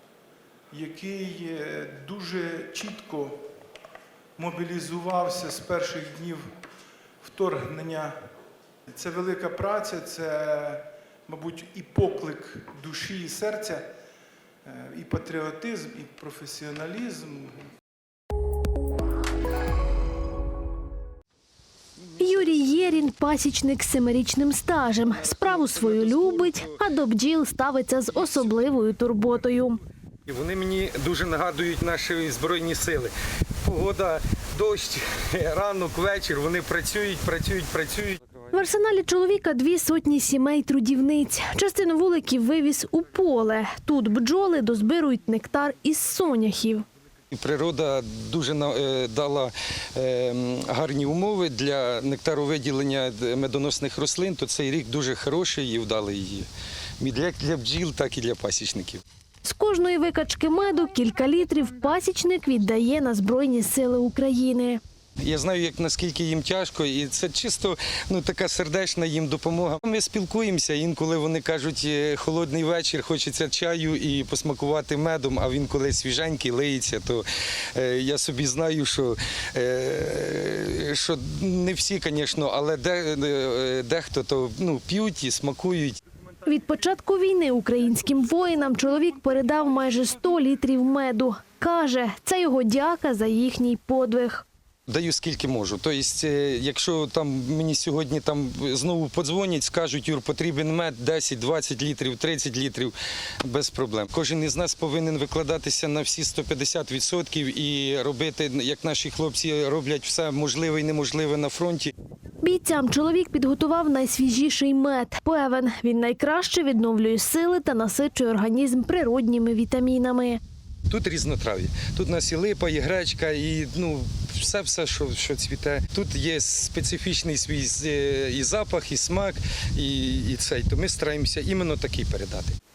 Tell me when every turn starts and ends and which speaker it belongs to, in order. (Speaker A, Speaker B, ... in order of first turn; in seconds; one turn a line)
Speaker A: 0.7-3.4
Speaker A: 4.4-6.5
Speaker A: 7.2-8.2
Speaker A: 8.9-13.9
Speaker A: 14.7-17.5
Speaker B: 22.2-29.8
Speaker C: 25.1-26.7
Speaker C: 30.3-33.1
Speaker C: 33.6-38.2
Speaker B: 38.5-46.9
Speaker C: 47.3-56.5
Speaker C: 57.0-59.0
Speaker B: 59.4-64.8
Speaker C: 65.2-86.0
Speaker B: 86.5-94.5
Speaker C: 94.9-102.9
Speaker C: 103.5-111.9
Speaker B: 112.4-120.4
Speaker C: 120.9-132.6